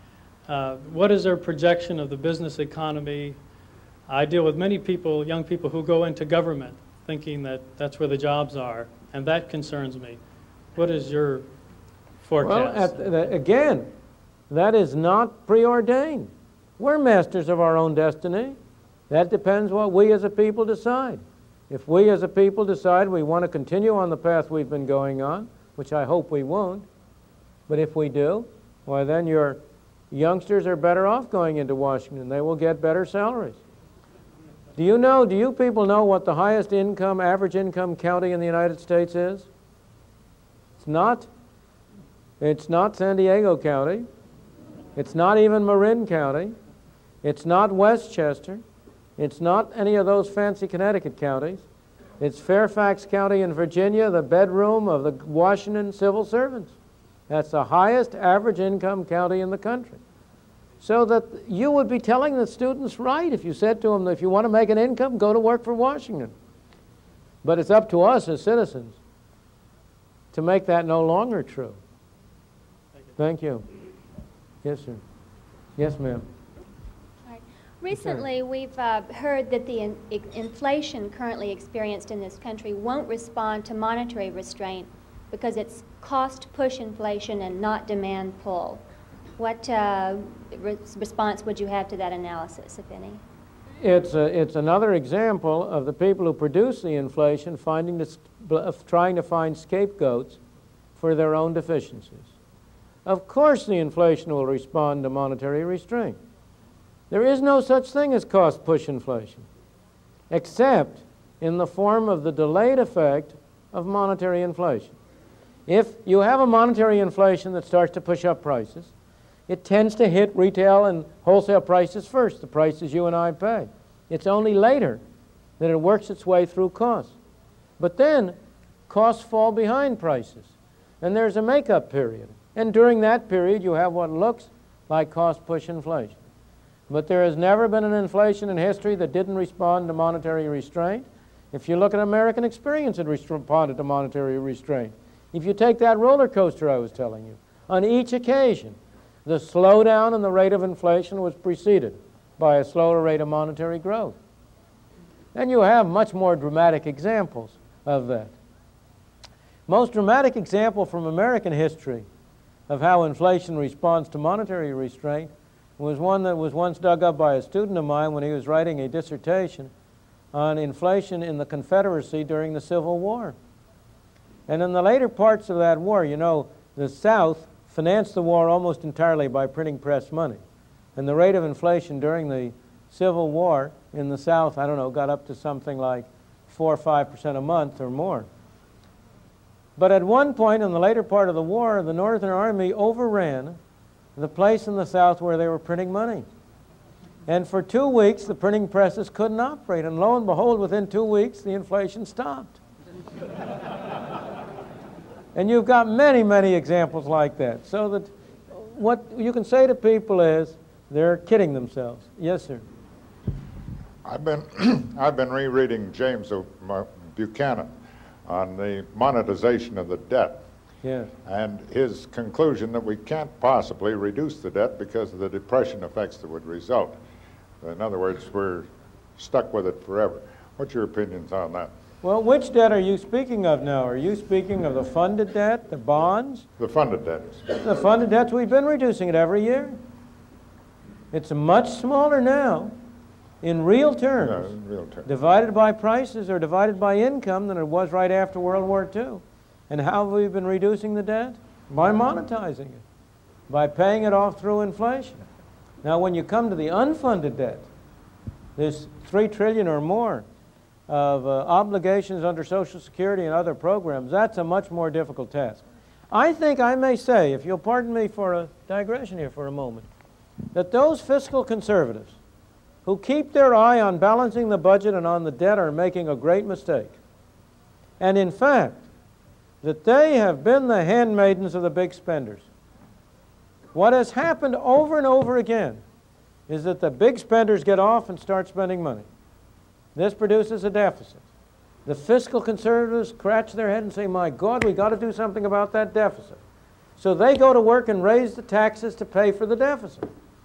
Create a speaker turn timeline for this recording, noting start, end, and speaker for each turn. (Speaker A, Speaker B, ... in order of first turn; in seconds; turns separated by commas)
Speaker A: 0.5-3.4, Speaker A: 4.1-10.2, Speaker A: 10.7-11.4, Speaker A: 12.2-13.1, Speaker B: 12.4-13.9, Speaker B: 14.5-18.6, Speaker B: 19.1-26.9, Speaker B: 27.7-33.6, Speaker B: 34.8-39.5, Speaker B: 40.8-41.3, Speaker B: 42.4-44.0, Speaker B: 45.0-46.5, Speaker B: 47.2-48.6, Speaker B: 49.2-51.6, Speaker B: 52.2-56.7, Speaker B: 57.3-60.0, Speaker B: 60.8-66.3, Speaker B: 67.4-69.0, Speaker B: 70.3-71.8, Speaker B: 73.2-73.7, Speaker B: 74.6-75.0, Speaker B: 75.8-76.2, Speaker C: 77.2-88.8, Speaker B: 77.9-78.2, Speaker C: 89.4-93.2, Speaker B: 93.8-100.4, Speaker B: 101.0-102.3, Speaker B: 103.0-106.2, Speaker B: 107.1-109.4, Speaker B: 110.3-114.9, Speaker B: 115.7-118.9, Speaker B: 119.5-125.0, Speaker B: 125.6-127.1, Speaker B: 127.8-128.3, Speaker B: 128.9-136.2, Speaker B: 136.9-154.2, Speaker B: 155.3-158.3, Speaker B: 159.7-162.1, Speaker B: 162.7-169.7, Speaker B: 170.3-173.3, Speaker B: 174.5-180.4, Speaker B: 180.9-188.3, Speaker B: 189.8-193.6, Speaker B: 194.2-196.2, Speaker B: 197.3-202.6, Speaker B: 205.3-212.6, Speaker D: 214.0-217.7, Speaker D: 218.2-220.4, Speaker B: 220.8-221.1, Speaker D: 221.2-227.0, Speaker D: 227.6-231.7, Speaker B: 232.0-236.4, Speaker D: 236.6-237.7, Speaker B: 237.6-239.8, Speaker B: 241.1-242.7, Speaker B: 243.4-244.5, Speaker D: 244.2-245.1, Speaker B: 245.0-252.8, Speaker B: 253.5-255.2, Speaker B: 255.8-257.7, Speaker B: 258.6-260.2, Speaker B: 260.9-269.9, Speaker B: 270.5-272.2, Speaker B: 272.8-276.9, Speaker B: 278.0-278.8, Speaker B: 279.6-282.4, Speaker B: 283.7-285.8, Speaker B: 286.5-289.1, Speaker B: 289.9-291.2, Speaker B: 291.8-296.4, Speaker B: 297.0-300.1